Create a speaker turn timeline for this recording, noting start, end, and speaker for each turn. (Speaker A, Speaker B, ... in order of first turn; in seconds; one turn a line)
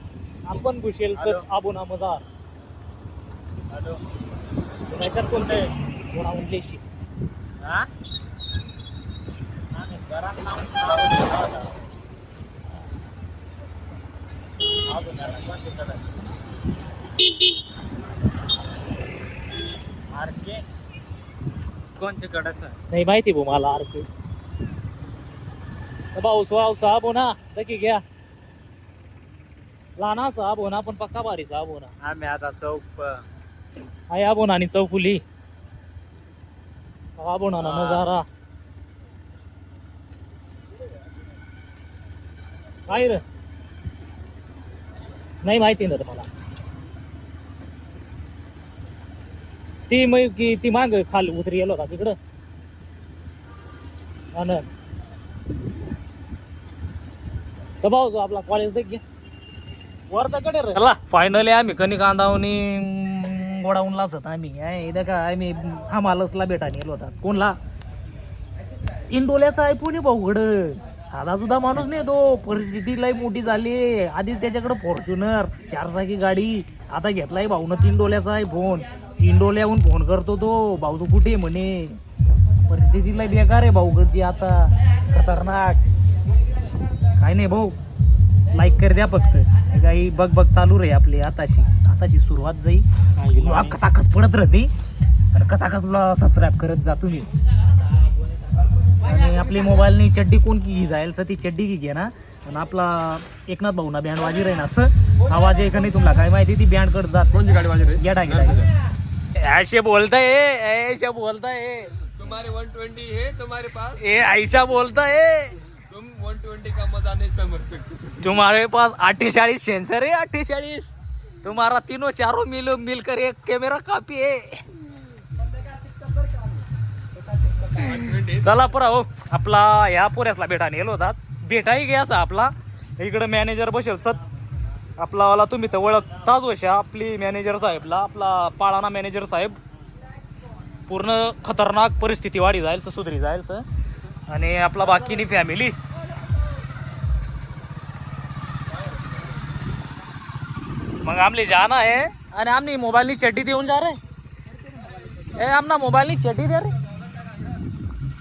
Speaker A: 0.5-2.3
Speaker B: 1.1-1.4
Speaker B: 3.7-4.0
Speaker A: 4.9-6.9
Speaker B: 5.3-5.7
Speaker B: 7.6-7.9
Speaker B: 9.7-11.8
Speaker B: 14.8-16.0
Speaker B: 20.1-20.6
Speaker B: 22.0-22.8
Speaker A: 22.9-24.1
Speaker A: 26.1-28.0
Speaker A: 30.0-31.9
Speaker B: 32.0-33.2
Speaker A: 34.1-35.2
Speaker A: 37.2-38.2
Speaker B: 37.6-38.1
Speaker A: 42.9-43.2
Speaker A: 45.4-46.3
Speaker A: 49.9-52.2
Speaker A: 54.3-54.7
Speaker A: 57.8-59.0
Speaker A: 60.1-67.5
Speaker A: 69.1-82.0
Speaker A: 82.7-85.8
Speaker A: 87.2-87.8
Speaker A: 88.5-92.8
Speaker B: 93.2-93.8
Speaker A: 93.3-94.7
Speaker A: 95.3-97.3
Speaker A: 99.0-108.7
Speaker A: 109.3-111.9
Speaker C: 112.2-113.9
Speaker A: 113.9-115.6
Speaker C: 115.9-117.9
Speaker A: 118.2-120.9
Speaker A: 121.4-124.6
Speaker A: 127.7-134.2
Speaker A: 135.0-139.6
Speaker A: 140.9-143.6
Speaker A: 144.3-145.8
Speaker A: 151.0-154.0
Speaker A: 155.2-156.7